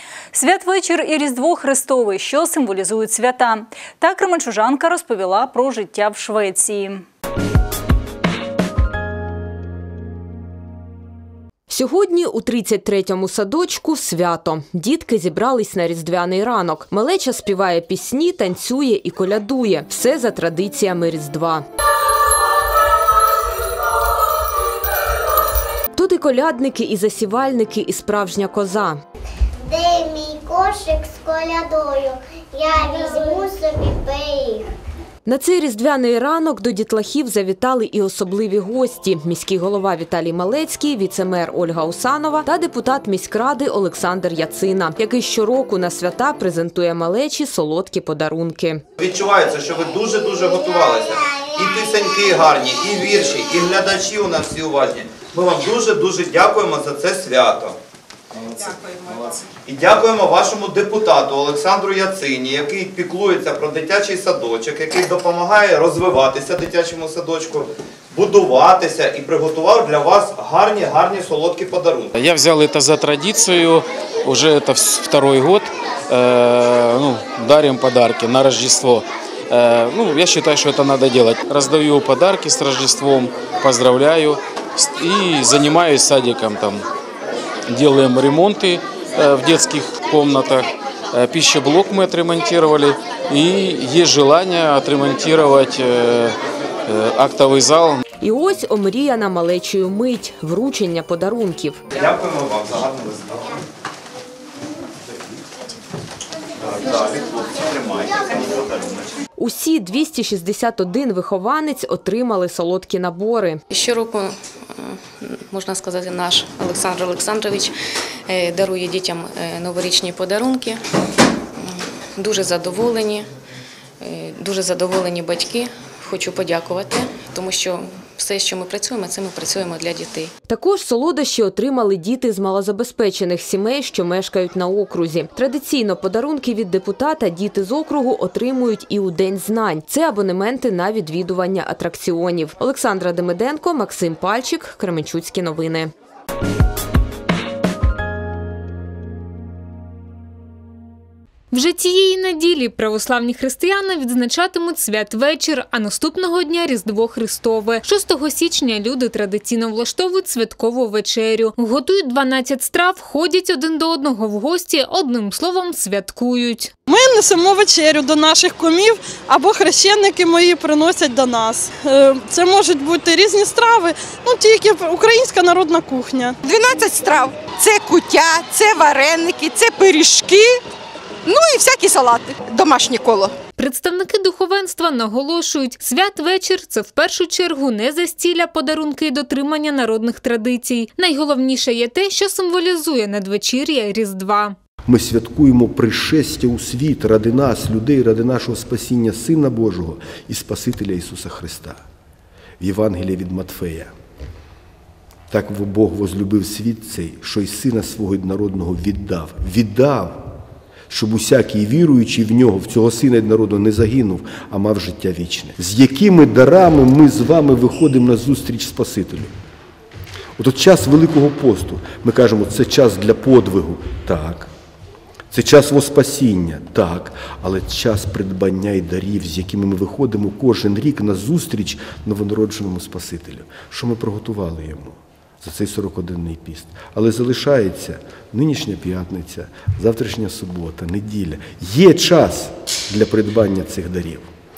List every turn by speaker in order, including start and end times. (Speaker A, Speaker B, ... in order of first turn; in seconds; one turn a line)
Speaker A: 0.3-7.0
Speaker B: 11.7-21.6
Speaker B: 25.9-29.0
Speaker C: 29.7-34.6
Speaker B: 35.2-48.8
Speaker D: 49.0-57.8
Speaker D: 58.6-59.1
Speaker D: 59.6-72.1
Speaker E: 72.1-86.8
Speaker E: 87.7-96.3
Speaker E: 96.9-98.0
Speaker B: 98.2-101.8
Speaker D: 102.0-103.3
Speaker D: 106.7-108.7
Speaker B: 109.4-113.6
Speaker F: 113.8-114.3
Speaker F: 115.5-117.7
Speaker F: 118.3-120.8
Speaker F: 121.6-123.2
Speaker F: 124.0-130.2
Speaker B: 130.5-145.9
Speaker G: 151.5-166.7
Speaker H: 166.9-176.3
Speaker I: 176.4-180.6
Speaker I: 181.2-183.3
Speaker G: 183.6-194.6
Speaker J: 194.9-201.8
Speaker J: 202.6-203.9
Speaker J: 205.3-210.2
Speaker J: 210.9-219.3
Speaker J: 220.4-224.5
Speaker J: 225.3-244.3